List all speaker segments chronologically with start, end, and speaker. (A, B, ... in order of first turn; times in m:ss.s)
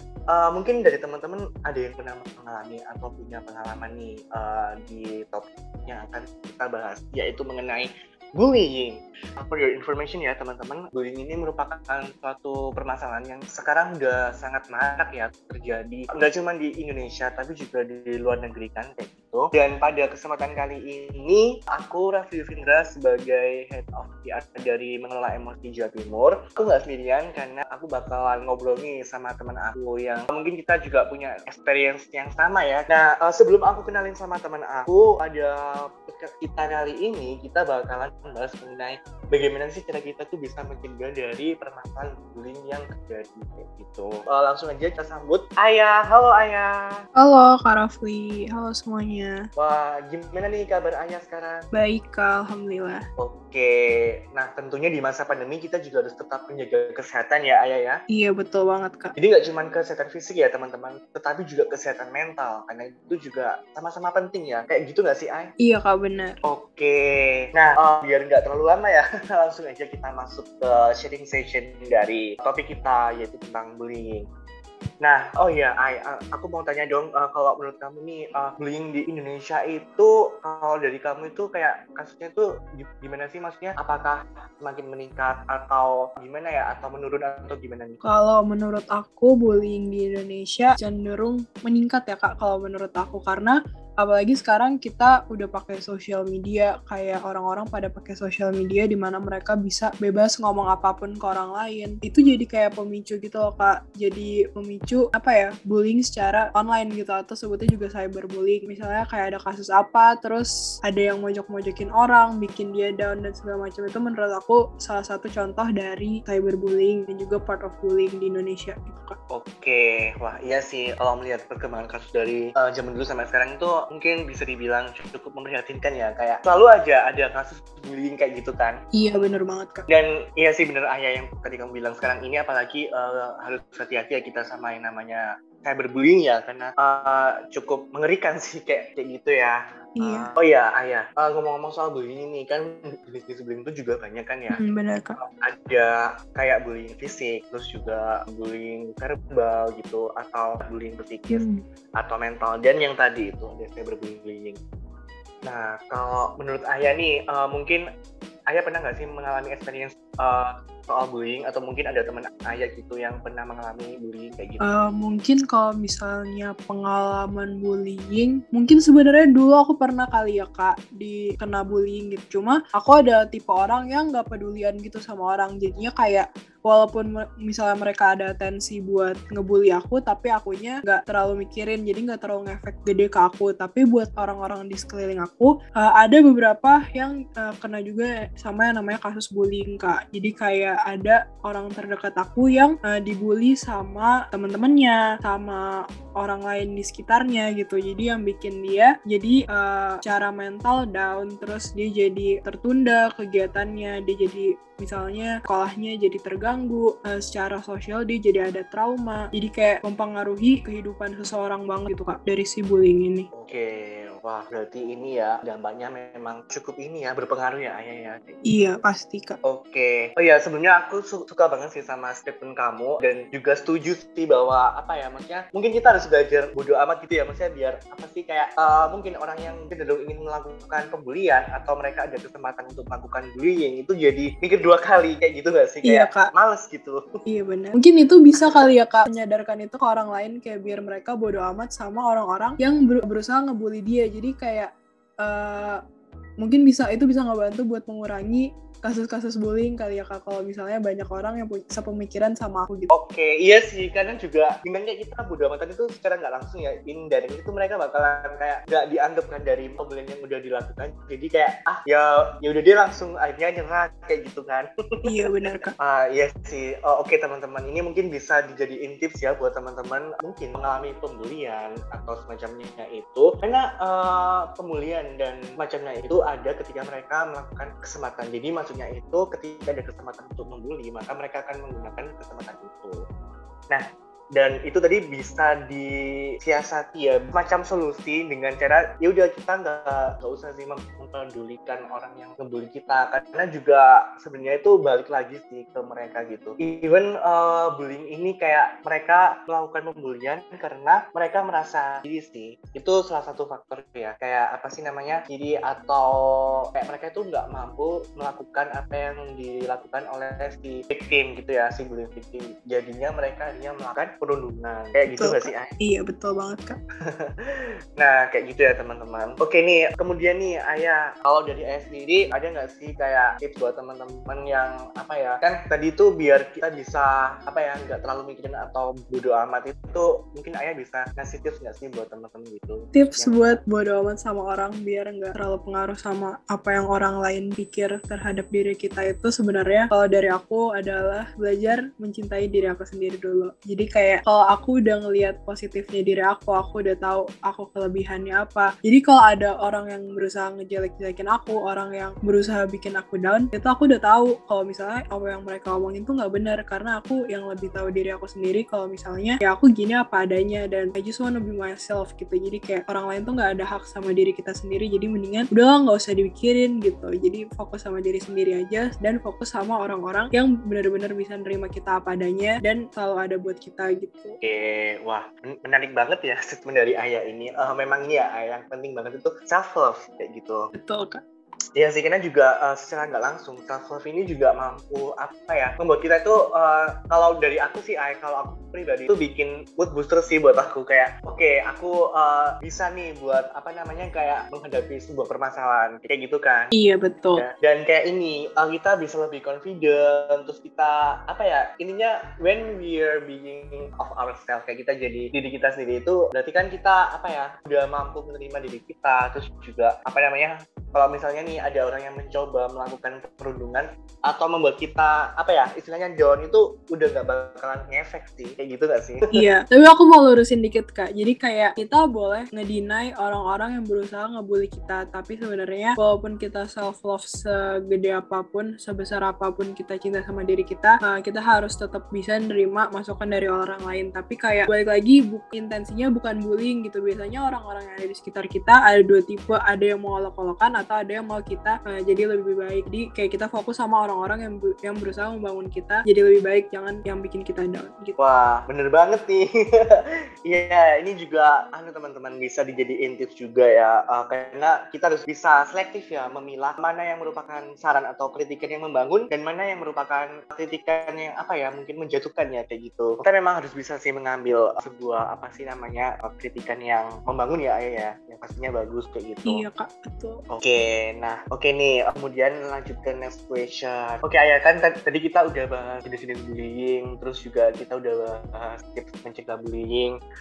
0:00.3-0:46.8 A
0:47.2-0:49.4 B
0:49.6-0:51.6 A
0:51.7-0:53.0 B
0:53.2-0:58.0 A
0:58.1-0:59.1 B
0:59.2-1:05.5 A
1:05.6-1:06.4 B
1:06.4-1:14.2 A
1:15.0-1:28.0 A
1:28.0-1:59.2 B
1:59.3-2:08.8 A
2:08.9-2:09.8 B
2:09.9-2:24.6 A
2:20.0-2:20.3 B
2:24.5-2:25.2 B
2:25.2-2:31.4 A
2:31.3-2:31.6 B
2:32.0-2:34.6 A
2:35.4-2:37.8 A
2:38.5-2:44.6 A
2:44.6-3:33.3 B
3:33.3-3:38.4 A
3:38.4-3:39.4 B
3:39.4-3:57.0 A
3:55.8-3:56.3 B
3:57.2-4:04.7 B
4:05.2-4:05.8 B
4:06.4-4:12.9 B
4:12.9-4:25.1 A
4:25.0-4:25.7 B
4:25.8-4:43.0 A
4:43.7-5:15.7 A
5:15.2-5:16.8 B
5:17.1-5:33.6 A
5:32.9-6:14.4 B
6:14.4-6:20.7 A
6:20.7-6:21.2 B
6:21.8-6:36.7 A
6:36.7-6:37.4 B
6:37.4-6:59.2 A
6:59.3-7:28.2 B
7:28.2-7:49.6 A
7:49.4-7:50.4 B
7:50.5-8:00.1 A